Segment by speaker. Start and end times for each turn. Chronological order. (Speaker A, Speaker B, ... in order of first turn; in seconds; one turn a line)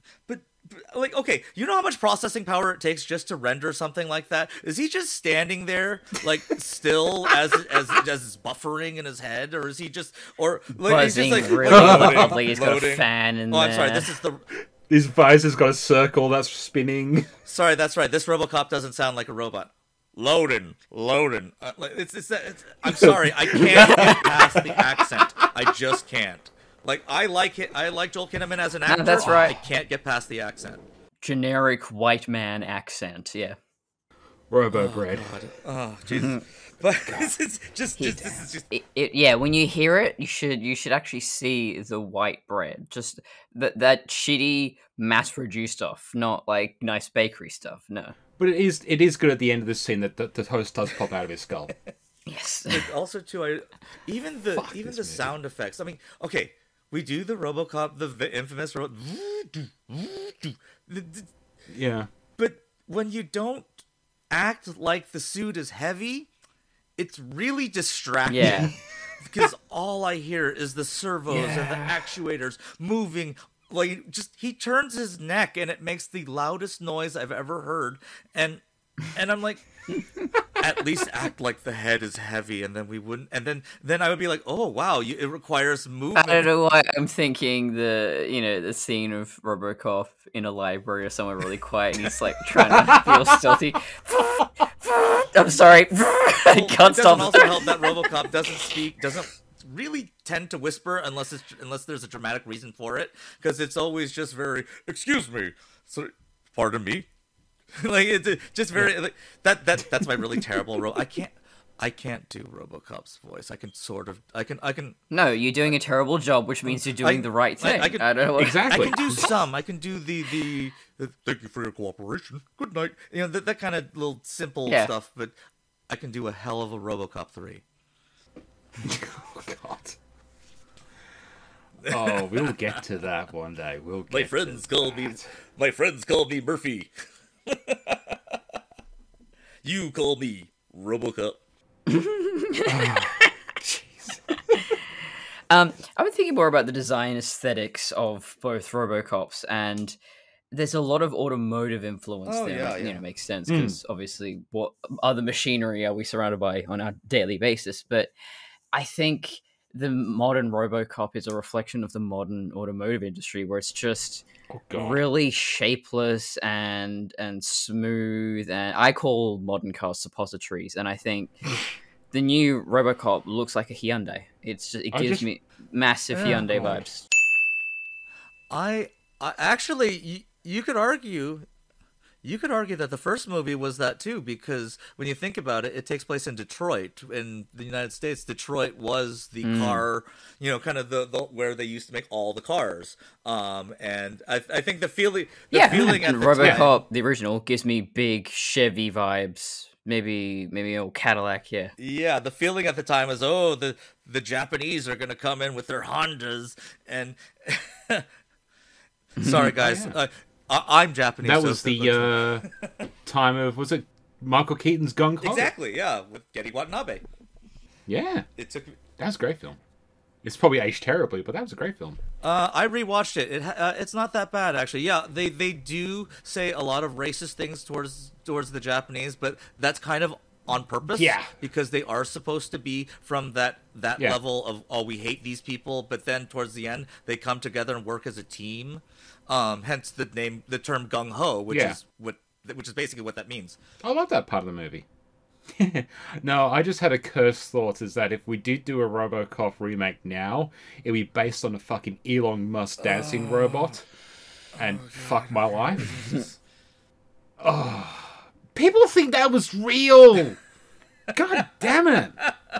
Speaker A: 0.3-14.4
Speaker B: 10.8-14.1
Speaker C: 11.6-12.4
Speaker C: 14.9-17.3
Speaker A: 17.5-30.8
Speaker C: 22.8-25.7
Speaker B: 28.9-29.6
Speaker B: 31.2-33.6
Speaker C: 34.5-35.3
Speaker A: 34.7-38.7
Speaker B: 36.1-36.4
Speaker C: 37.0-37.3
Speaker B: 38.0-48.1
Speaker C: 48.4-51.7
Speaker B: 52.3-52.9
Speaker A: 52.7-61.3
Speaker C: 54.6-55.3
Speaker C: 61.7-62.1
Speaker A: 62.4-63.8
Speaker A: 64.3-66.3
Speaker A: 67.0-79.7
Speaker B: 68.3-68.7
Speaker C: 68.4-68.7
Speaker C: 71.3-72.1
Speaker A: 80.6-86.5
Speaker B: 86.1-97.9
Speaker C: 92.7-93.5
Speaker A: 96.5-107.1
Speaker A: 107.8-115.0
Speaker B: 115.1-118.8
Speaker A: 117.0-118.1
Speaker C: 118.4-119.2
Speaker A: 118.7-125.3
Speaker B: 124.7-124.9
Speaker A: 125.9-127.6
Speaker C: 128.8-130.0
Speaker C: 131.8-135.2
Speaker A: 131.8-132.3
Speaker A: 134.1-136.9
Speaker A: 137.5-138.2
Speaker A: 139.6-141.4
Speaker B: 141.9-143.0
Speaker C: 142.7-144.6
Speaker B: 145.5-150.0
Speaker B: 150.5-158.1
Speaker A: 152.2-153.0
Speaker C: 153.5-153.8
Speaker B: 158.7-171.4
Speaker C: 164.5-165.0
Speaker B: 172.1-177.1
Speaker C: 174.9-175.2
Speaker A: 176.1-176.7
Speaker C: 176.3-176.8
Speaker A: 178.5-181.5
Speaker A: 182.2-196.8
Speaker B: 189.4-189.8
Speaker B: 195.5-201.7
Speaker C: 196.4-196.7
Speaker A: 201.8-208.1
Speaker A: 209.2-212.7
Speaker B: 209.2-209.5
Speaker C: 209.5-210.0
Speaker C: 211.2-212.4
Speaker C: 213.1-215.5
Speaker A: 215.2-217.0
Speaker C: 217.9-218.2
Speaker A: 218.4-218.8
Speaker C: 219.0-219.6
Speaker C: 220.2-222.0
Speaker A: 222.2-243.6
Speaker C: 230.9-231.3
Speaker C: 241.5-241.8
Speaker C: 243.8-244.8
Speaker C: 245.5-253.8
Speaker A: 252.8-253.7
Speaker A: 254.5-256.4
Speaker C: 254.6-256.2
Speaker C: 257.4-260.4
Speaker C: 261.1-262.2